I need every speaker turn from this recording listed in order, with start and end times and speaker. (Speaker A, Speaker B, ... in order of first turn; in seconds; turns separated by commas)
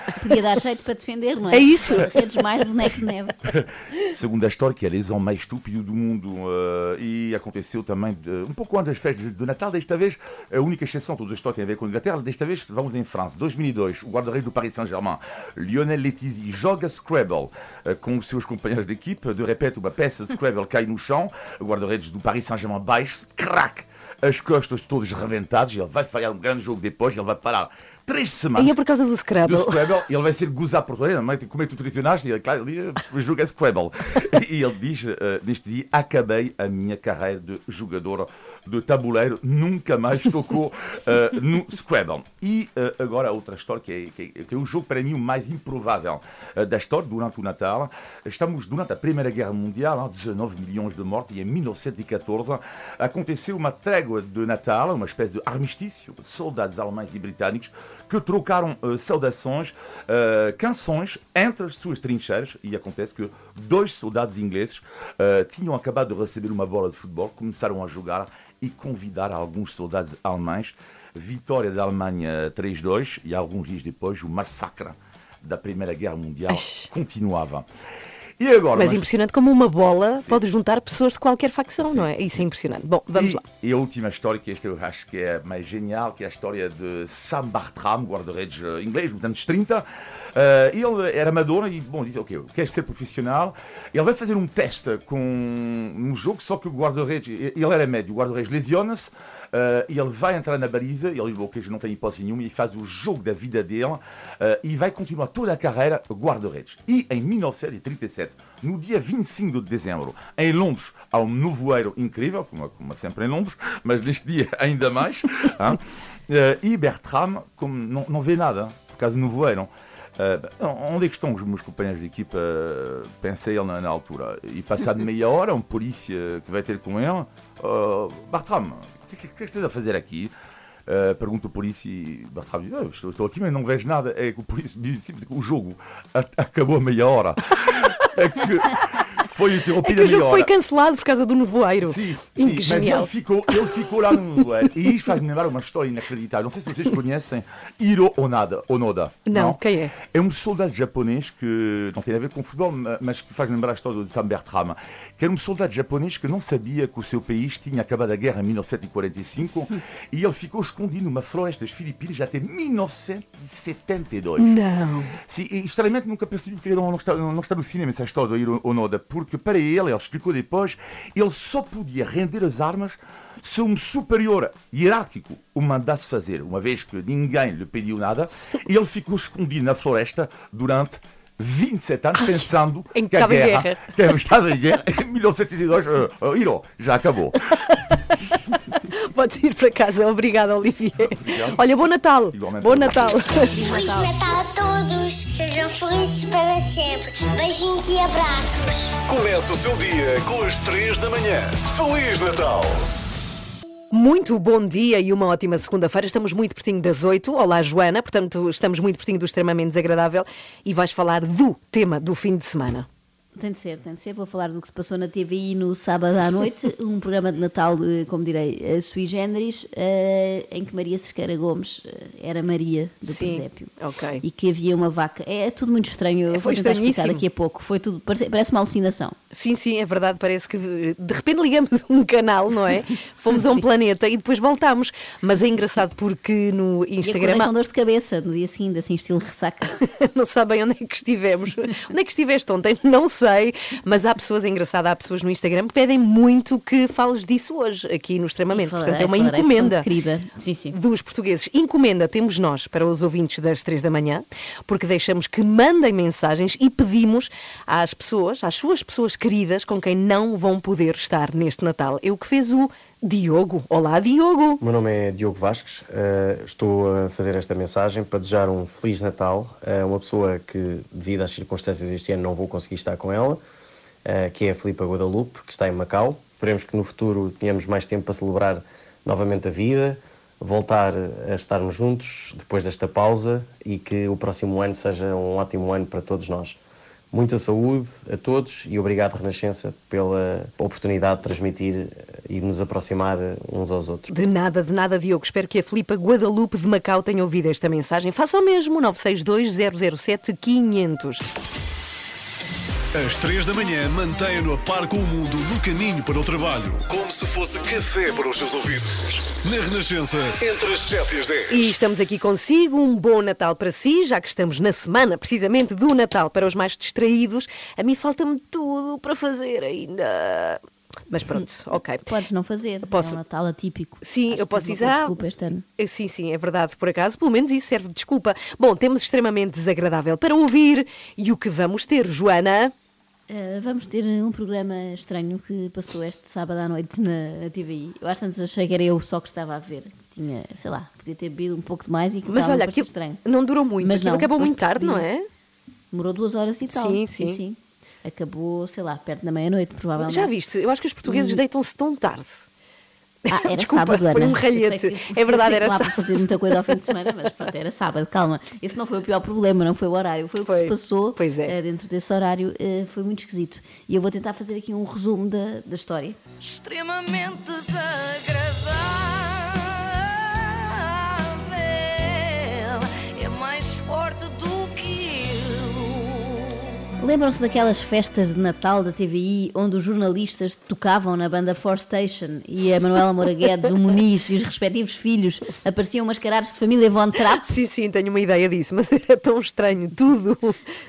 Speaker A: 0.2-3.3, Speaker B: 1.5-2.2, Speaker C: 3.5-28.8, Speaker B: 28.6-29.9, Speaker C: 29.4-77.7, Speaker B: 76.5-76.9, Speaker C: 78.4-79.1, Speaker B: 78.7-83.4, Speaker C: 81.8-82.1, Speaker C: 83.1-130.3, Speaker C: 130.9-140.5, Speaker B: 139.8-144.2, Speaker C: 141.8-164.5, Speaker B: 149.3-149.9, Speaker B: 164.4-165.1, Speaker C: 165.3-187.4, Speaker B: 182.2-183.9, Speaker B: 188.3-193.5, Speaker C: 191.0-191.6, Speaker C: 192.3-193.2, Speaker A: 193.5-194.1, Speaker D: 193.6-198.9, Speaker E: 199.1-202.8, Speaker B: 203.9-212.9, Speaker A: 213.3-223.7, Speaker B: 223.1-224.2, Speaker A: 224.2-229.1, Speaker B: 226.3-227.2, Speaker B: 229.3-237.5, Speaker A: 237.0-239.7, Speaker B: 239.8-249.9, Speaker A: 248.5-250.7, Speaker B: 250.7-264.6, Speaker F: 264.6-273.4, Speaker F: 274.0-286.6, Speaker F: 287.1-294.1, Speaker B: 294.1-301.2, Speaker E: 302.9-311.7, Speaker B: 311.5-322.0, Speaker A: 322.1-325.6, Speaker B: 322.8-323.2, Speaker B: 324.0-325.2, Speaker B: 325.8-332.7, Speaker A: 333.3-343.2, Speaker B: 342.3-345.3, Speaker A: 343.8-345.1, Speaker A: 345.9-350.3, Speaker B: 346.7-347.4, Speaker B: 350.0-352.4, Speaker A: 351.0-351.4, Speaker B: 353.2-356.8, Speaker A: 353.3-366.2, Speaker B: 360.4-361.5, Speaker G: 366.4-376.6, Speaker A: 377.0-387.4, Speaker B: 387.4-390.6